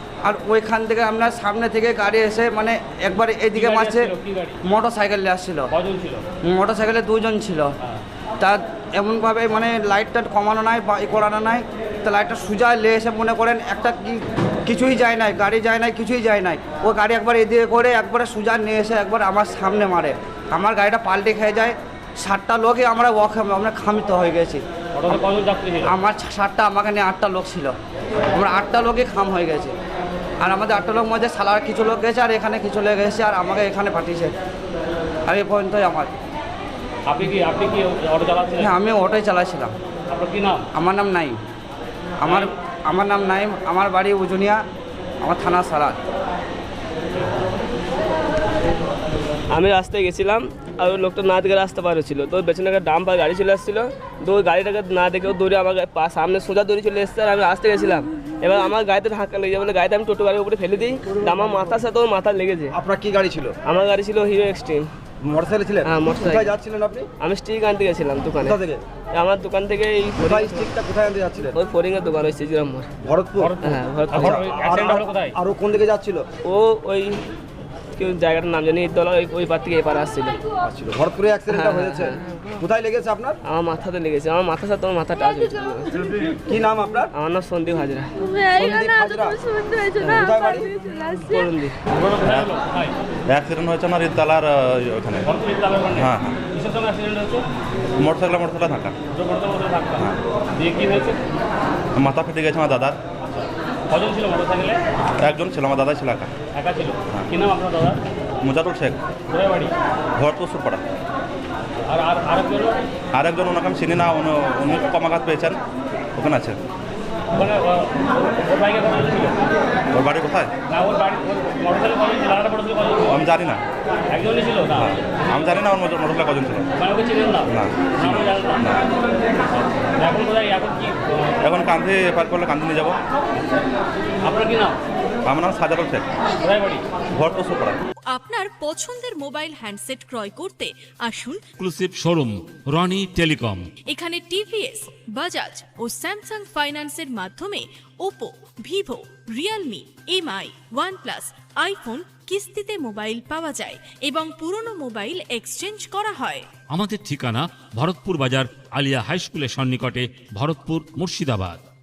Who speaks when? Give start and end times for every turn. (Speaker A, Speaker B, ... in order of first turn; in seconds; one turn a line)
Speaker A: 0.2-4.1
Speaker B: 3.5-4.6
Speaker A: 4.7-5.7
Speaker B: 5.7-6.2
Speaker A: 6.4-7.7
Speaker A: 8.4-24.6
Speaker B: 25.0-25.9
Speaker A: 25.8-27.8
Speaker A: 28.3-29.7
Speaker A: 30.4-34.3
Speaker A: 35.3-36.1
Speaker B: 37.1-38.7
Speaker A: 38.6-39.8
Speaker B: 40.1-40.6
Speaker A: 40.8-41.4
Speaker A: 42.2-44.6
Speaker A: 45.2-46.0
Speaker C: 49.5-62.8
Speaker D: 62.7-63.5
Speaker C: 63.6-64.9
Speaker D: 65.2-67.1
Speaker C: 65.8-66.6
Speaker C: 67.2-68.6
Speaker D: 68.4-68.8
Speaker C: 69.2-70.8
Speaker D: 70.2-71.6
Speaker C: 71.4-72.9
Speaker D: 73.0-73.5
Speaker B: 73.4-75.4
Speaker C: 73.6-74.7
Speaker D: 74.1-76.2
Speaker C: 76.4-77.2
Speaker C: 78.0-80.4
Speaker D: 80.7-83.4
Speaker C: 81.5-82.2
Speaker C: 83.5-86.0
Speaker D: 86.2-87.1
Speaker C: 87.1-89.3
Speaker D: 88.5-89.4
Speaker C: 89.9-91.8
Speaker D: 90.1-90.7
Speaker B: 91.9-93.0
Speaker E: 93.3-95.3
Speaker B: 95.3-97.4
Speaker E: 96.0-96.4
Speaker E: 98.0-98.9
Speaker B: 99.1-101.2
Speaker E: 102.0-103.0
Speaker B: 103.3-104.8
Speaker E: 105.2-106.3
Speaker B: 106.5-108.0
Speaker E: 108.4-109.0
Speaker B: 109.3-109.7
Speaker E: 110.2-110.8
Speaker B: 111.9-112.8
Speaker E: 113.2-115.5
Speaker E: 116.2-116.6
Speaker B: 117.3-119.4
Speaker E: 119.9-120.5
Speaker B: 120.7-123.2
Speaker E: 123.1-123.6
Speaker B: 124.1-125.6
Speaker E: 124.8-126.6
Speaker B: 126.8-128.8
Speaker E: 127.6-128.8
Speaker B: 130.0-131.3
Speaker E: 131.5-132.9
Speaker F: 131.8-132.9
Speaker B: 134.2-134.8
Speaker E: 135.3-136.0
Speaker F: 135.6-135.9
Speaker B: 136.4-136.8
Speaker E: 137.2-137.7
Speaker G: 138.1-141.4
Speaker F: 141.6-143.7
Speaker G: 143.9-156.5
Speaker F: 156.7-161.6